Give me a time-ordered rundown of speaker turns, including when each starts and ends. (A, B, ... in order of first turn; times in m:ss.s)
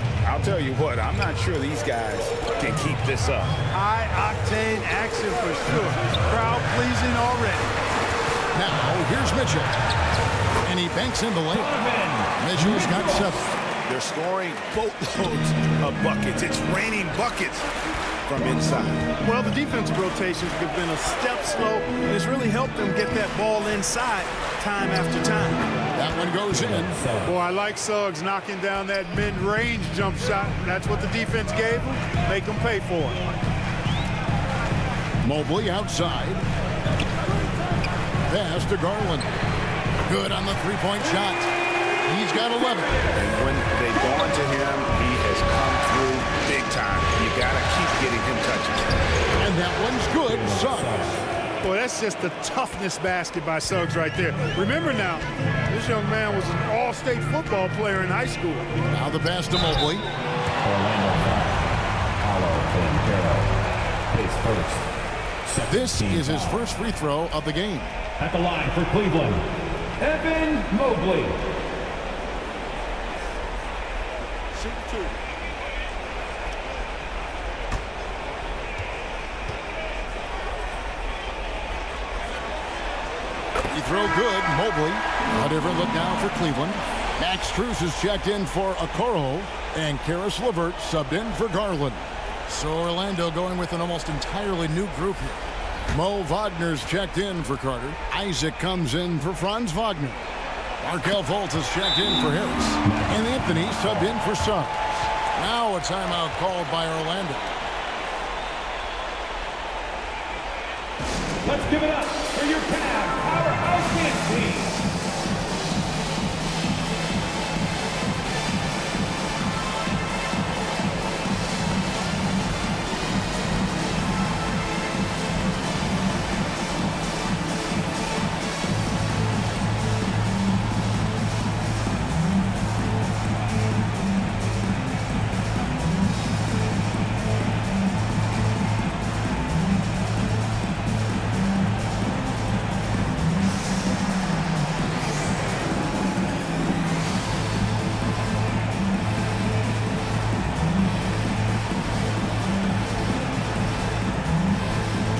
0:00.2-0:03.6 A
0:03.7-0:07.7 B
0:08.5-0:09.7 C
0:10.6-0:11.8 C
0:11.5-0:13.3 D
0:12.4-0:13.5 C
0:13.9-0:17.7 A
0:18.3-0:19.0 A
0:19.2-0:25.6 B
0:26.0-0:27.0 C
0:26.5-0:27.4 D
0:27.2-0:33.2 B
0:35.2-0:36.5 C
0:38.3-0:39.3 C
0:40.0-0:41.5 C
0:42.1-0:43.0 C
0:43.1-0:48.8 A
0:49.4-0:51.1 C
0:50.1-0:51.3 D
0:51.6-0:58.7 B
0:58.9-1:00.0 C
1:00.6-1:03.6 D
1:04.1-1:04.9 D
1:05.4-1:06.6 D
1:05.7-1:07.9 C
1:08.2-1:09.5 D
1:10.0-1:11.4 D
1:14.6-1:15.1 C
1:14.7-1:15.1 B
1:23.7-1:35.4 C
1:35.9-1:40.2 C
1:40.8-1:47.5 C
1:42.9-1:44.1 D
1:51.4-1:54.8 D